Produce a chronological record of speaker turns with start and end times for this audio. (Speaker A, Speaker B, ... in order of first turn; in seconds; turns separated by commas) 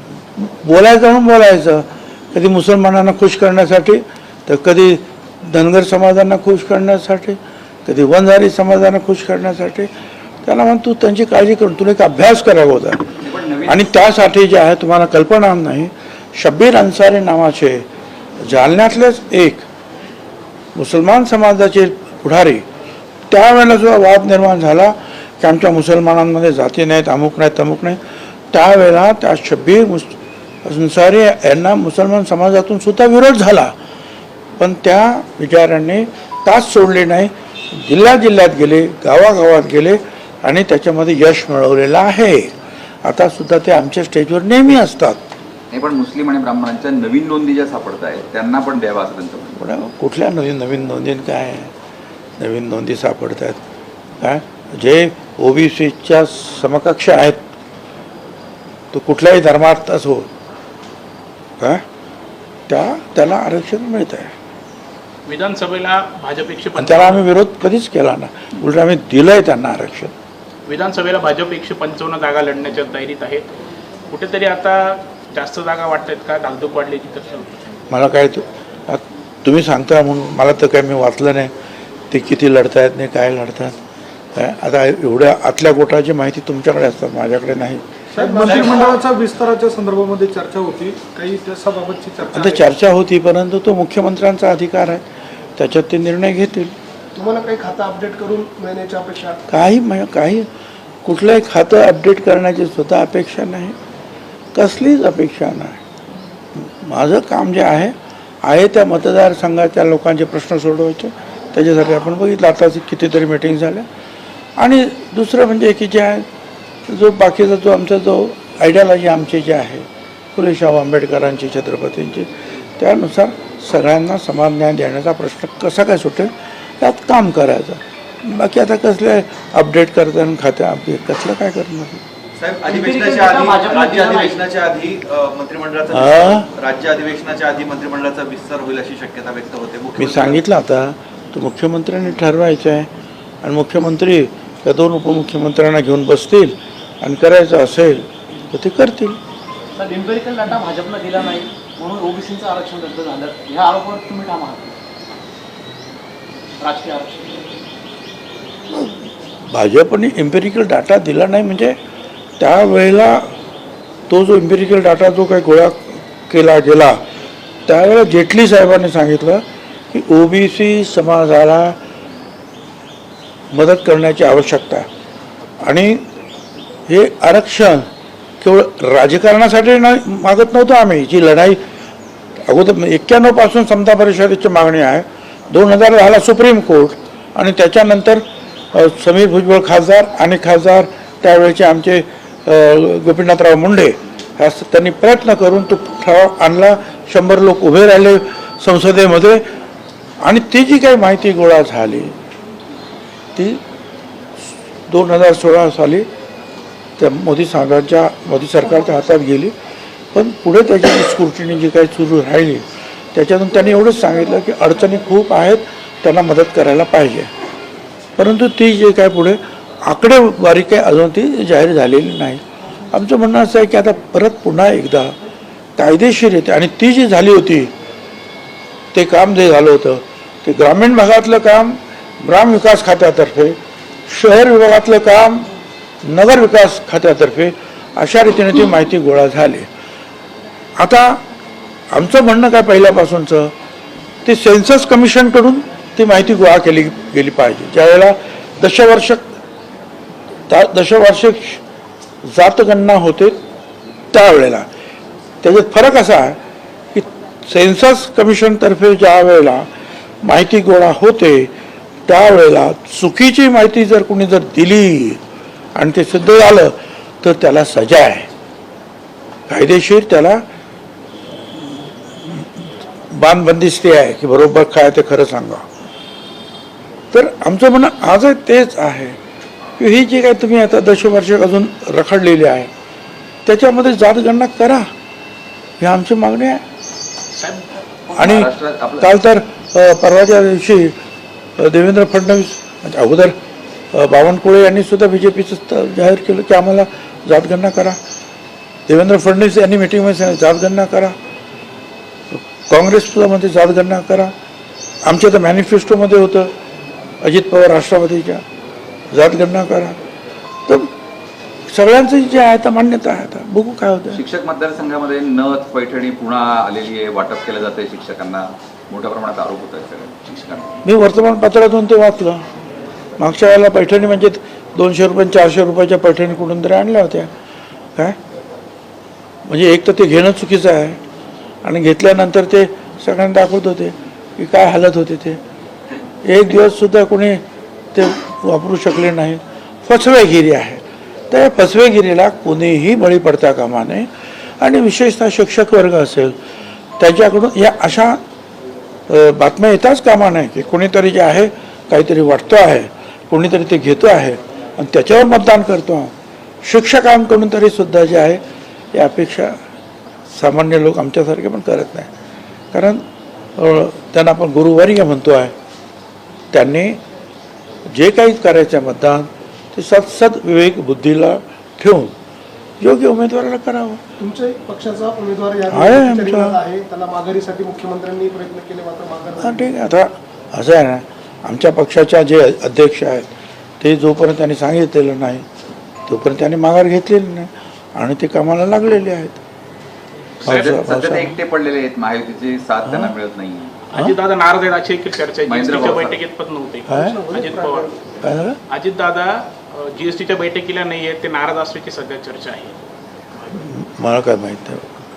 Speaker A: 0.4-9.9, Speaker A: 10.4-17.9, Speaker B: 13.2-13.8, Speaker A: 18.4-19.7, Speaker A: 20.8-22.6, Speaker A: 23.3-28.0, Speaker A: 28.5-33.7, Speaker A: 34.6-42.5, Speaker A: 43.0-45.2, Speaker B: 45.7-49.5, Speaker A: 49.5-51.7, Speaker A: 52.4-53.6, Speaker A: 54.2-57.4, Speaker A: 58.9-60.3, Speaker A: 62.7-64.3, Speaker C: 65.3-67.2, Speaker A: 66.8-70.1, Speaker C: 70.7-73.5, Speaker C: 74.1-77.5, Speaker A: 77.9-81.5, Speaker A: 82.1-83.8, Speaker A: 84.3-87.8, Speaker D: 88.1-88.9, Speaker E: 88.2-92.7, Speaker F: 88.5-88.8, Speaker A: 92.3-95.0, Speaker A: 95.6-96.8, Speaker D: 97.2-99.4, Speaker A: 99.5-100.5, Speaker A: 101.0-103.8, Speaker A: 104.5-105.8, Speaker A: 106.6-113.9, Speaker A: 114.6-116.3, Speaker A: 116.9-132.0, Speaker F: 132.4-140.4, Speaker G: 132.6-134.4, Speaker A: 135.9-136.5, Speaker A: 140.0-142.9, Speaker A: 143.4-149.2, Speaker G: 149.8-154.8, Speaker G: 156.6-157.4, Speaker A: 158.7-161.8, Speaker A: 162.4-163.3, Speaker A: 164.1-167.0, Speaker A: 167.7-171.8, Speaker A: 173.5-174.9, Speaker A: 175.6-176.0, Speaker A: 176.9-177.9, Speaker A: 178.4-181.6, Speaker A: 182.5-199.4, Speaker A: 200.2-202.1, Speaker A: 203.4-203.6, Speaker A: 204.9-206.1, Speaker A: 207.0-209.5, Speaker A: 210.1-217.3, Speaker A: 218.2-225.1, Speaker A: 225.8-227.7, Speaker A: 228.9-233.6, Speaker A: 234.1-235.5, Speaker A: 236.0-239.7, Speaker A: 240.8-241.2, Speaker A: 241.9-243.5, Speaker A: 244.2-249.3, Speaker A: 250.5-251.6, Speaker A: 252.2-253.4, Speaker A: 254.1-254.7, Speaker A: 255.4-256.4, Speaker A: 256.9-259.7, Speaker A: 260.2-261.5, Speaker A: 262.1-265.2, Speaker A: 265.8-268.3, Speaker A: 269.5-270.4, Speaker A: 271.6-275.6, Speaker A: 277.1-279.2, Speaker A: 279.8-282.7, Speaker A: 283.5-284.9, Speaker A: 285.8-286.6, Speaker C: 287.3-287.8, Speaker B: 288.1-289.1, Speaker A: 288.1-291.0, Speaker A: 291.6-293.4, Speaker A: 293.9-298.0, Speaker A: 298.9-301.1, Speaker A: 302.4-304.3, Speaker A: 305.1-306.5, Speaker A: 307.2-308.4, Speaker A: 309.1-310.0, Speaker A: 311.7-314.2, Speaker B: 314.1-320.7, Speaker A: 320.8-322.4, Speaker A: 323.2-327.3, Speaker A: 329.5-331.0, Speaker A: 331.6-335.4, Speaker A: 336.2-337.4, Speaker A: 337.9-344.1, Speaker A: 344.6-346.4, Speaker A: 347.0-348.2, Speaker A: 349.1-356.1, Speaker A: 356.6-358.4, Speaker A: 358.9-359.6, Speaker A: 360.3-362.1, Speaker A: 362.7-363.0, Speaker A: 363.6-365.5, Speaker A: 366.5-367.0, Speaker A: 367.9-372.1, Speaker A: 372.8-374.0, Speaker D: 374.2-379.7, Speaker A: 375.7-376.6, Speaker A: 379.4-385.4, Speaker A: 386.1-389.4, Speaker A: 390.4-391.4, Speaker B: 390.4-393.8, Speaker C: 393.9-397.9, Speaker B: 395.5-396.2, Speaker A: 396.9-397.2, Speaker D: 396.9-398.0, Speaker A: 398.2-398.6, Speaker C: 398.7-402.7, Speaker A: 403.5-404.9